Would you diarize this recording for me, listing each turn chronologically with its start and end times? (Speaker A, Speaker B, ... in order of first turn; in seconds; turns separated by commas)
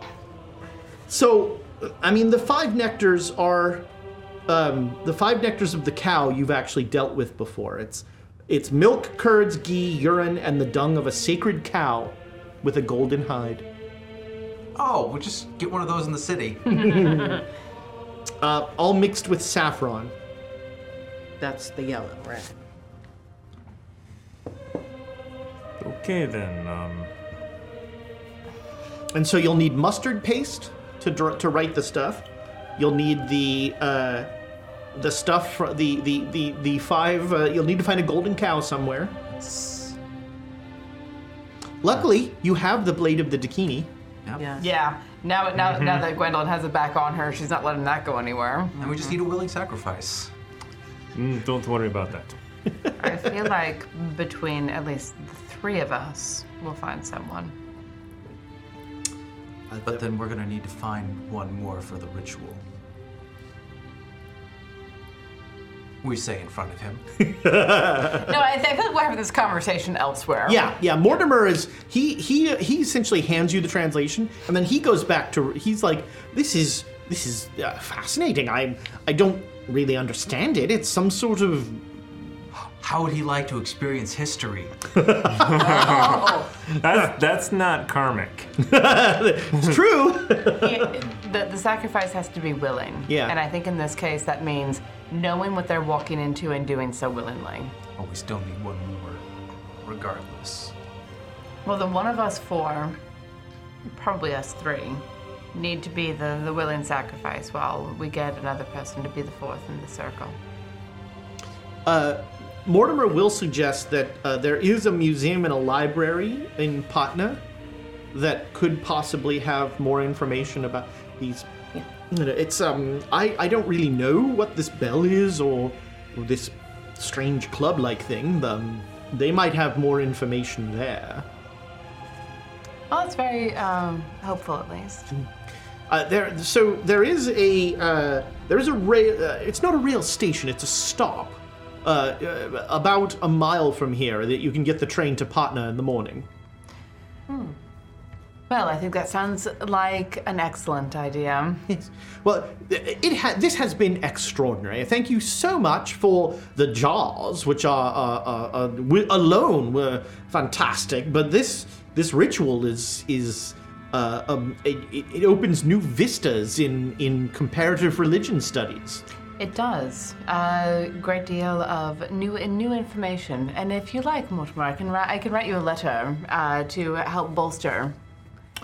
Speaker A: 1.1-3.9, Speaker A: 4.5-13.7, Speaker B: 14.7-17.3, Speaker A: 16.7-17.3, Speaker A: 18.4-20.1, Speaker C: 21.4-22.5, Speaker D: 25.8-27.1, Speaker A: 29.1-34.3, Speaker A: 34.9-39.2, Speaker B: 39.4-39.9, Speaker A: 41.8-43.9, Speaker B: 44.2-44.6, Speaker E: 44.6-48.8, Speaker D: 45.6-46.0, Speaker B: 48.8-50.3, Speaker D: 51.1-52.4, Speaker E: 53.0-57.5, Speaker A: 59.7-60.0, Speaker B: 59.8-62.6, Speaker B: 66.0-67.0, Speaker A: 67.2-68.3, Speaker E: 68.0-70.7, Speaker A: 70.5-81.8, Speaker B: 82.8-84.9, Speaker A: 84.9-85.6, Speaker D: 85.4-88.5, Speaker C: 85.4-86.5, Speaker A: 88.6-90.9, Speaker E: 90.5-97.7, Speaker A: 93.1-93.3, Speaker B: 98.0-99.2, Speaker B: 99.8-100.7, Speaker E: 101.6-103.0, Speaker E: 103.9-110.3, Speaker A: 111.8-117.4, Speaker A: 118.1-121.5, Speaker A: 122.1-131.2, Speaker E: 132.9-135.1, Speaker A: 135.9-146.3, Speaker C: 147.3-147.5, Speaker E: 148.5-151.7, Speaker A: 151.7-169.0, Speaker E: 169.4-177.9